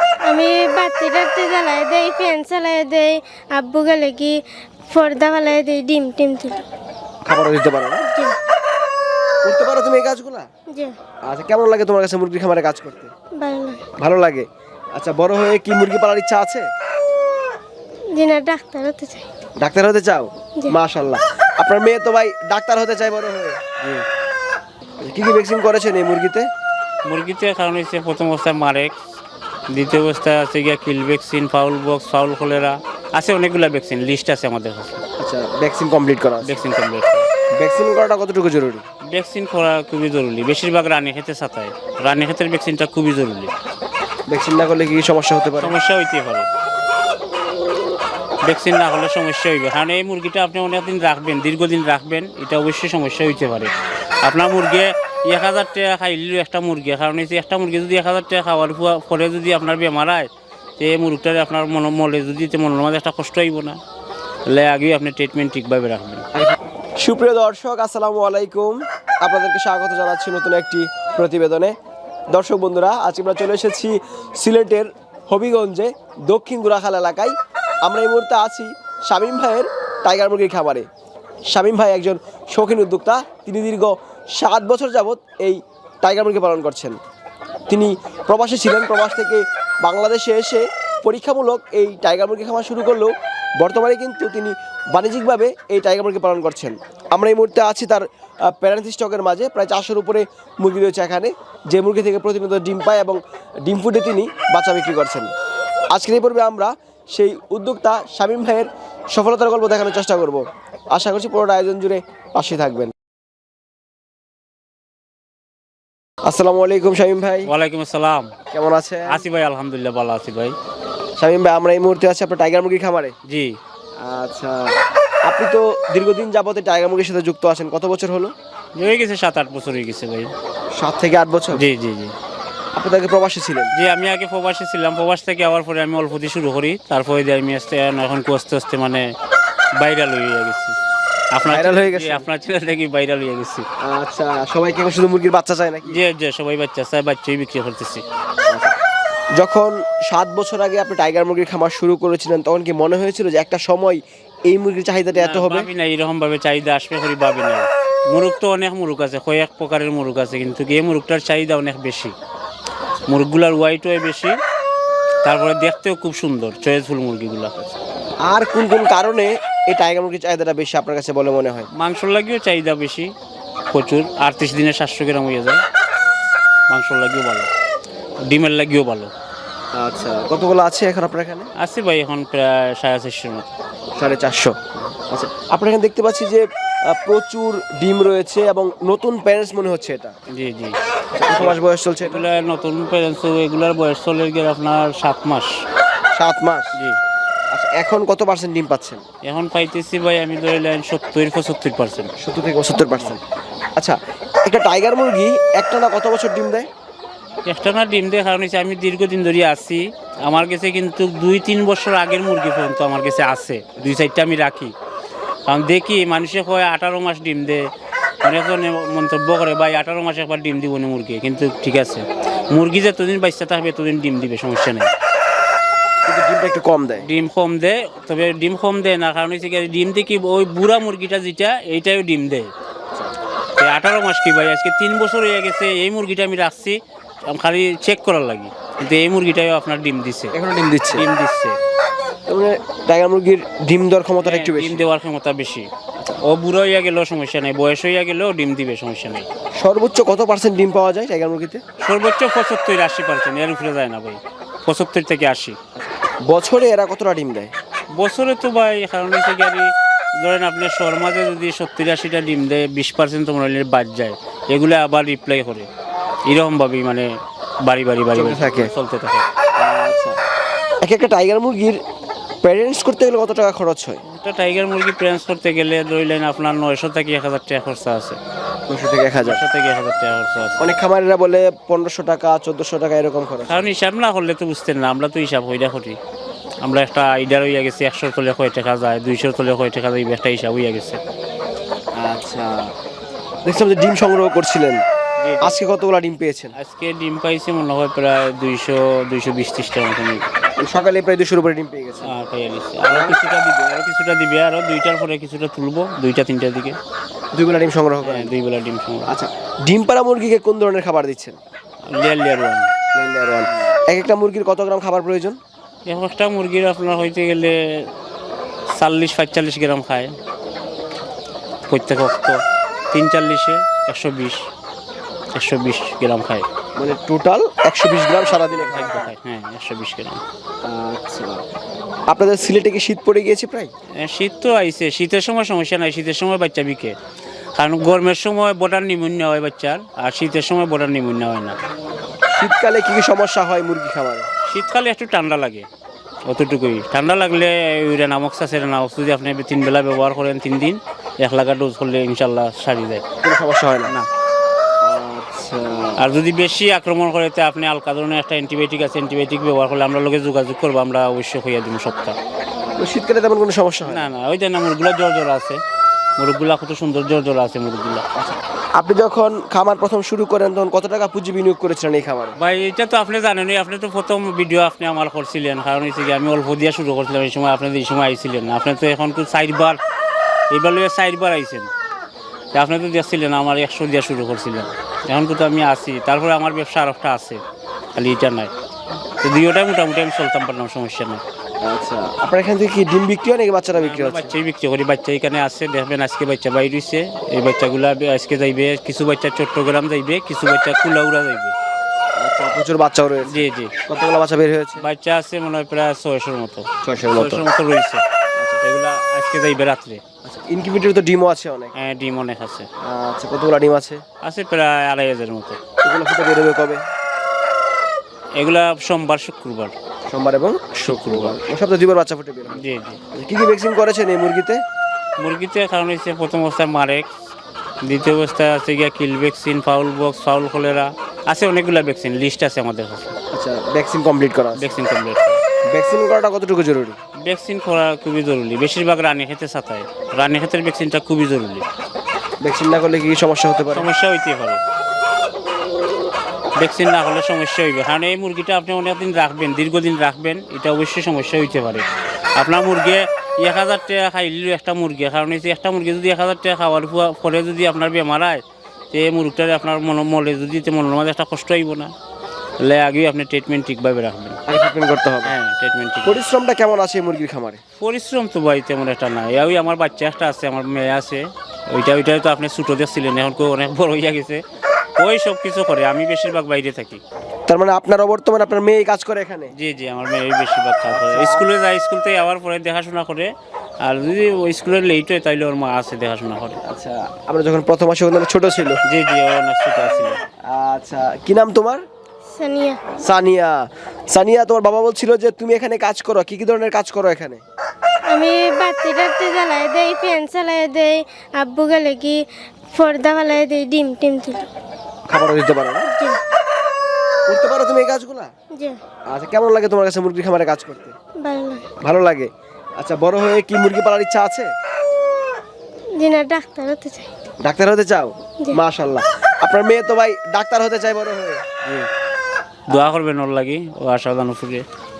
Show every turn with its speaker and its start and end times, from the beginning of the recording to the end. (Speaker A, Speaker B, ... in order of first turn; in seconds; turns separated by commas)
Speaker A: 0.2-4.4, Speaker A: 4.9-6.6, Speaker B: 7.3-8.1, Speaker B: 9.4-10.4, Speaker A: 10.7-10.9, Speaker B: 11.2-13.1, Speaker A: 13.4-13.8, Speaker B: 14.0-16.7, Speaker A: 18.1-19.2, Speaker B: 19.6-23.6, Speaker B: 25.0-26.5, Speaker C: 27.1-28.9, Speaker C: 29.7-35.0, Speaker B: 35.2-36.6, Speaker C: 36.4-37.3, Speaker B: 37.6-38.8, Speaker C: 39.1-43.5, Speaker B: 44.3-45.7, Speaker C: 45.6-46.5, Speaker C: 48.4-53.7, Speaker C: 54.2-63.8, Speaker C: 64.5-66.3, Speaker B: 66.4-71.7, Speaker B: 72.3-80.9, Speaker B: 81.5-87.0, Speaker B: 87.7-105.3, Speaker B: 105.9-110.4, Speaker B: 110.9-112.9, Speaker B: 116.3-117.5, Speaker C: 117.5-118.3, Speaker B: 118.5-119.2, Speaker C: 119.1-120.5, Speaker B: 121.2-123.1, Speaker C: 123.3-123.6, Speaker B: 124.0-124.6, Speaker B: 125.3-128.3, Speaker C: 128.8-130.3, Speaker B: 130.8-131.6, Speaker C: 131.5-132.1, Speaker B: 132.8-133.7, Speaker C: 133.7-139.1, Speaker C: 139.8-140.8, Speaker C: 141.3-143.6, Speaker B: 141.4-142.2, Speaker B: 143.8-146.0, Speaker C: 145.8-148.0, Speaker B: 148.5-148.7, Speaker B: 149.4-155.7, Speaker C: 155.1-162.1, Speaker C: 163.1-164.4, Speaker C: 165.2-167.7, Speaker B: 168.2-171.7, Speaker C: 171.7-173.1, Speaker C: 173.7-175.6, Speaker C: 176.7-177.5, Speaker C: 178.3-179.1, Speaker B: 179.8-181.5, Speaker C: 181.6-183.5, Speaker B: 184.0-190.1, Speaker C: 190.3-190.8, Speaker B: 191.1-192.2, Speaker C: 191.3-195.5, Speaker B: 196.2-196.8, Speaker B: 197.5-199.0, Speaker C: 199.2-202.1, Speaker B: 202.2-203.2, Speaker B: 203.8-206.7, Speaker C: 207.4-214.7, Speaker C: 215.5-217.7, Speaker C: 218.2-224.9, Speaker B: 226.0-227.1, Speaker C: 227.0-232.5, Speaker C: 233.6-240.3, Speaker B: 240.3-241.0, Speaker C: 240.9-241.6, Speaker B: 242.3-244.9, Speaker C: 244.2-245.7, Speaker C: 246.2-249.3, Speaker B: 249.6-251.6, Speaker C: 251.8-255.6, Speaker B: 255.8-257.5, Speaker C: 258.0-265.7, Speaker C: 266.3-267.1, Speaker C: 267.6-269.2, Speaker B: 268.1-268.7, Speaker B: 269.6-270.1, Speaker B: 270.8-271.8, Speaker B: 272.4-274.0, Speaker C: 274.0-278.2, Speaker B: 278.7-279.4, Speaker C: 279.2-280.7, Speaker B: 280.6-283.7, Speaker C: 283.4-286.0, Speaker C: 286.6-291.0, Speaker B: 292.0-292.7, Speaker B: 293.4-294.8, Speaker C: 295.2-295.6, Speaker B: 295.4-296.5, Speaker C: 296.6-300.2, Speaker B: 300.6-302.1, Speaker C: 302.0-306.8, Speaker B: 302.9-303.2, Speaker B: 307.3-308.3, Speaker C: 308.0-309.1, Speaker B: 309.1-311.4, Speaker C: 311.9-312.7, Speaker B: 312.9-315.4, Speaker C: 313.5-313.8, Speaker C: 315.9-317.9, Speaker C: 318.8-320.1, Speaker C: 321.7-322.4, Speaker C: 322.9-324.4, Speaker C: 325.3-326.5, Speaker B: 326.8-329.1, Speaker C: 328.2-330.2, Speaker B: 330.6-331.4, Speaker B: 332.1-333.7, Speaker C: 334.0-336.9, Speaker C: 337.6-341.6, Speaker B: 342.4-344.3, Speaker C: 344.5-345.7, Speaker C: 346.3-353.0, Speaker B: 353.2-353.9, Speaker B: 354.8-356.0, Speaker C: 356.0-362.2, Speaker B: 362.8-364.1, Speaker C: 363.8-365.6, Speaker C: 366.2-368.1, Speaker B: 368.1-372.4, Speaker C: 372.4-379.8, Speaker C: 380.5-381.7, Speaker C: 382.5-387.4, Speaker C: 387.9-388.5, Speaker C: 389.2-391.2, Speaker B: 391.6-394.3, Speaker C: 393.7-401.5, Speaker B: 402.2-404.8, Speaker C: 403.2-403.7, Speaker C: 404.8-408.0, Speaker B: 406.8-407.4, Speaker C: 408.6-410.0, Speaker B: 410.2-411.7, Speaker C: 411.8-412.7, Speaker B: 412.8-414.0, Speaker C: 414.2-415.6, Speaker B: 415.8-416.8, Speaker C: 418.4-419.7, Speaker B: 420.1-422.6, Speaker C: 420.9-421.4, Speaker C: 422.5-423.0, Speaker B: 423.1-424.6, Speaker C: 425.2-427.1, Speaker C: 427.9-433.1, Speaker B: 433.3-434.8, Speaker C: 434.5-435.4, Speaker B: 435.7-437.0, Speaker C: 437.2-441.7, Speaker B: 442.4-443.9, Speaker C: 443.7-444.6, Speaker C: 446.6-451.8, Speaker C: 452.4-458.4, Speaker C: 458.9-461.9, Speaker C: 462.6-464.4, Speaker B: 464.5-465.3, Speaker C: 465.2-466.2, Speaker B: 466.0-467.6, Speaker C: 467.8-474.4, Speaker C: 475.0-477.0, Speaker B: 477.5-479.5, Speaker C: 479.6-483.3, Speaker B: 480.9-481.5, Speaker C: 483.8-486.6, Speaker B: 486.6-488.8, Speaker C: 488.9-490.2, Speaker B: 490.5-491.8, Speaker A: 492.3-492.8, Speaker B: 493.0-493.6, Speaker B: 494.1-497.4, Speaker A: 498.1-502.2, Speaker A: 502.7-504.4, Speaker B: 505.1-505.9, Speaker A: 505.9-506.2, Speaker B: 507.3-508.3, Speaker B: 509.1-510.9, Speaker A: 511.2-511.6, Speaker B: 511.8-514.5, Speaker A: 516.0-517.1, Speaker B: 517.4-521.4, Speaker C: 522.7-524.6